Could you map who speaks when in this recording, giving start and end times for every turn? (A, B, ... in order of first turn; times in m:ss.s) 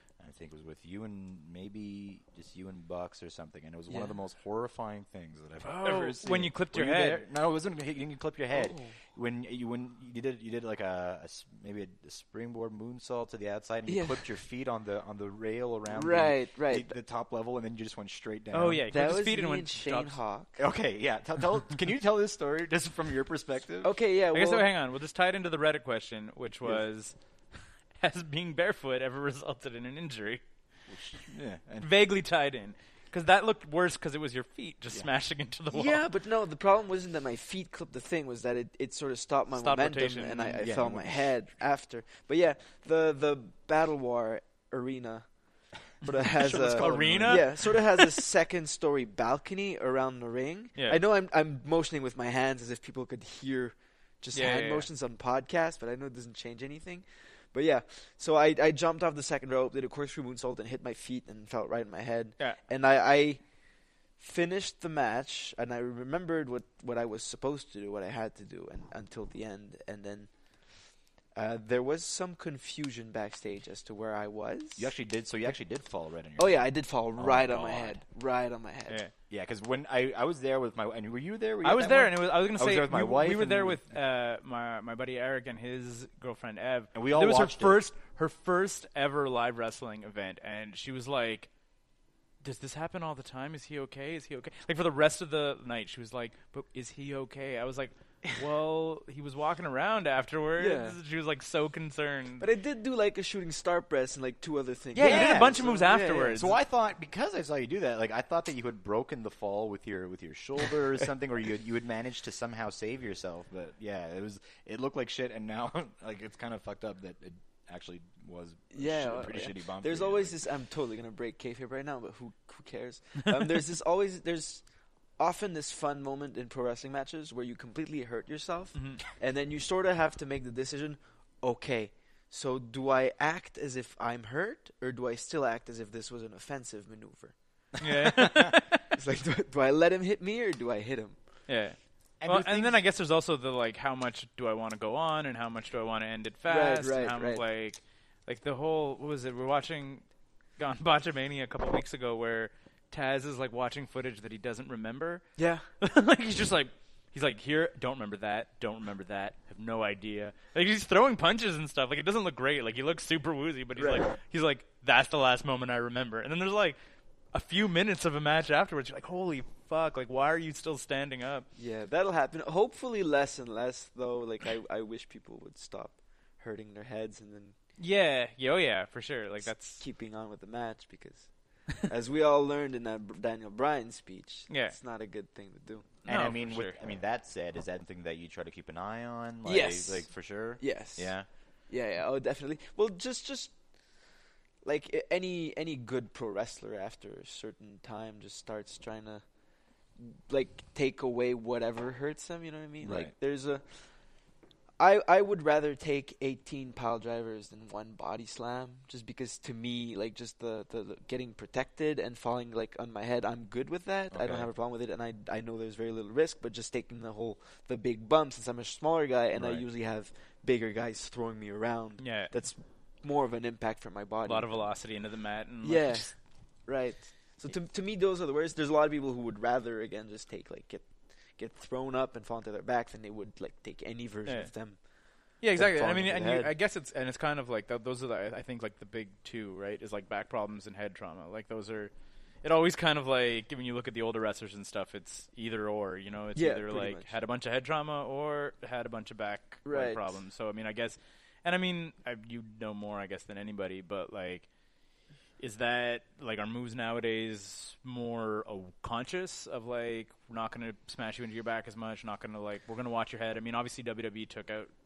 0:00.2-0:18.8 A
0:05.6-0:07.2 B
0:08.5-0:08.9 C
0:13.9-0:14.2 C
0:15.9-0:16.9 C
0:18.5-0:20.2 B
0:18.9-0:20.6 C
0:20.6-0:23.9 A
0:23.8-0:24.6 C
0:24.3-0:27.1 B
0:28.0-0:30.4 B
0:30.9-0:31.9 A
0:31.8-0:36.0 B
0:35.7-0:45.3 C
0:39.5-0:40.6 B
0:40.6-0:41.3 A
0:46.0-1:03.4 C
0:46.4-0:47.5 A
0:46.4-0:48.1 B
0:54.3-0:54.9 B
1:04.2-1:10.3 C
1:11.3-1:14.9 C
1:14.8-1:18.0 A
1:16.4-1:19.0 C
1:19.3-1:23.9 A
1:21.6-1:31.5 B
1:26.9-1:27.8 A
1:32.4-1:42.5 B
1:40.6-1:41.0 C
1:42.4-1:46.5 C
1:44.9-1:46.6 B
1:45.0-1:45.7 A
1:46.3-2:00.4 A
1:58.7-2:04.6 C
2:05.2-2:21.2 C
2:08.7-2:09.0 B
2:17.8-2:18.8 B
2:21.5-2:30.0 B
2:22.2-2:22.8 A
2:26.5-2:27.4 C
2:30.6-2:35.2 B
2:35.4-2:35.6 C
2:35.8-2:46.8 B
2:43.8-2:44.1 C
2:47.3-2:51.4 B
2:51.6-2:57.5 C
2:57.8-2:59.8 B
2:59.4-3:05.9 C
3:04.5-3:04.8 B
3:06.0-3:06.8 B
3:06.0-3:11.3 A
3:09.4-3:11.1 C
3:11.7-3:13.5 C
3:14.6-3:19.2 C
3:20.0-3:23.6 C
3:22.8-3:23.1 A
3:24.8-3:44.7 C
3:34.1-3:34.5 A
3:39.4-3:39.6 A
3:42.0-3:42.3 B
3:44.2-3:46.1 B
3:45.6-3:46.1 C
3:46.6-3:54.8 C
3:55.4-4:01.9 B
3:55.5-3:56.5 C
4:02.4-4:14.4 B
4:06.3-4:07.1 C
4:09.6-4:10.1 C
4:15.4-4:24.7 B